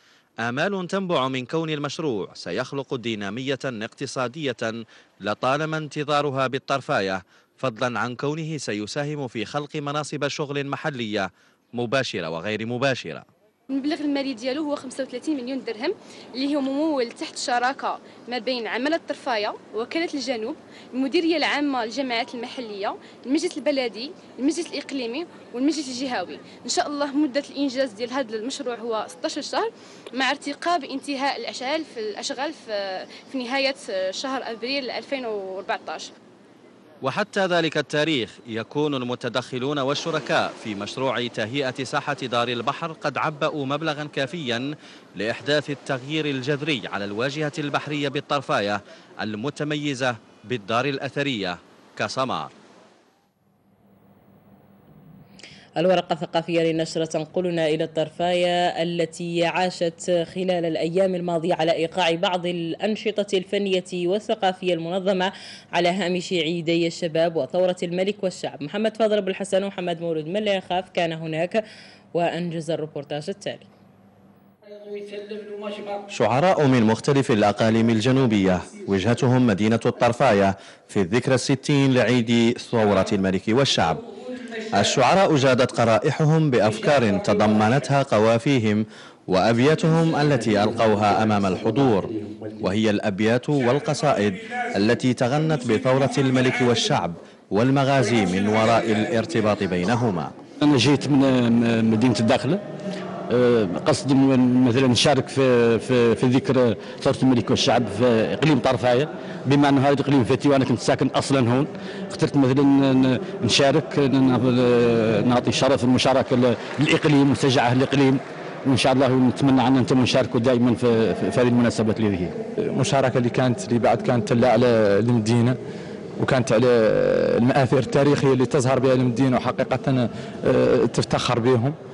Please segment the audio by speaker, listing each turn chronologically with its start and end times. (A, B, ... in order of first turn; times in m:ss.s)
0:00.4-0:13.2 A
0:13.7-0:36.1 B
0:37.0-0:52.5 A
0:55.8-1:11.6 C
1:12.1-1:13.7 C
1:16.1-1:24.0 A
1:24.7-1:40.3 A
1:40.6-1:42.6 D
1:43.3-2:02.3 D
2:02.7-2:05.6 E
2:06.2-2:11.8 E